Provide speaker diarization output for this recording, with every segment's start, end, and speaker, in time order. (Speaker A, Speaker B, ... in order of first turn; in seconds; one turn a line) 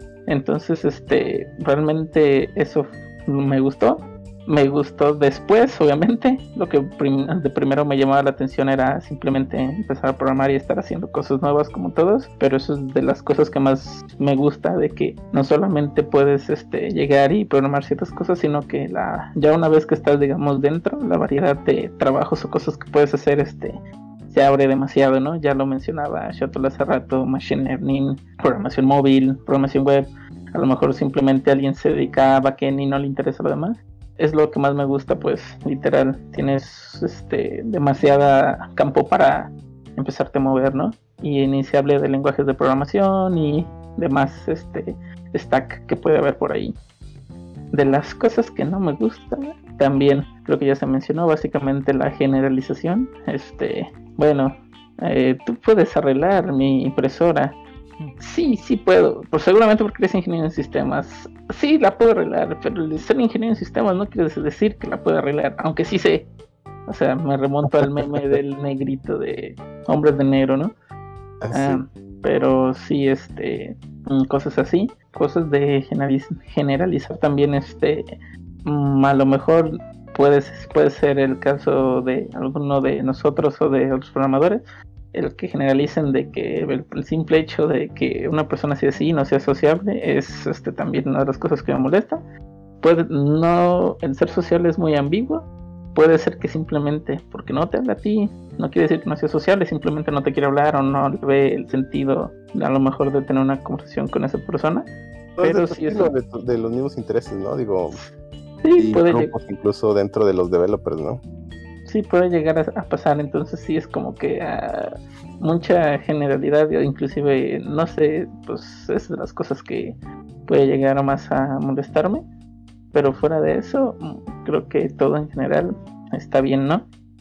Speaker A: 0.3-46.8
Speaker A: 47.7-57.6
Speaker A: 58.2-66.3
Speaker A: 66.9-70.7
Speaker B: 71.4-71.8
Speaker A: 71.5-78.0
Speaker A: 78.6-92.2
Speaker A: 92.8-104.9
Speaker B: 105.3-108.0
Speaker A: 105.4-106.1
Speaker A: 108.6-109.3
Speaker B: 108.8-111.2
Speaker A: 111.8-122.2
Speaker A: 122.9-126.9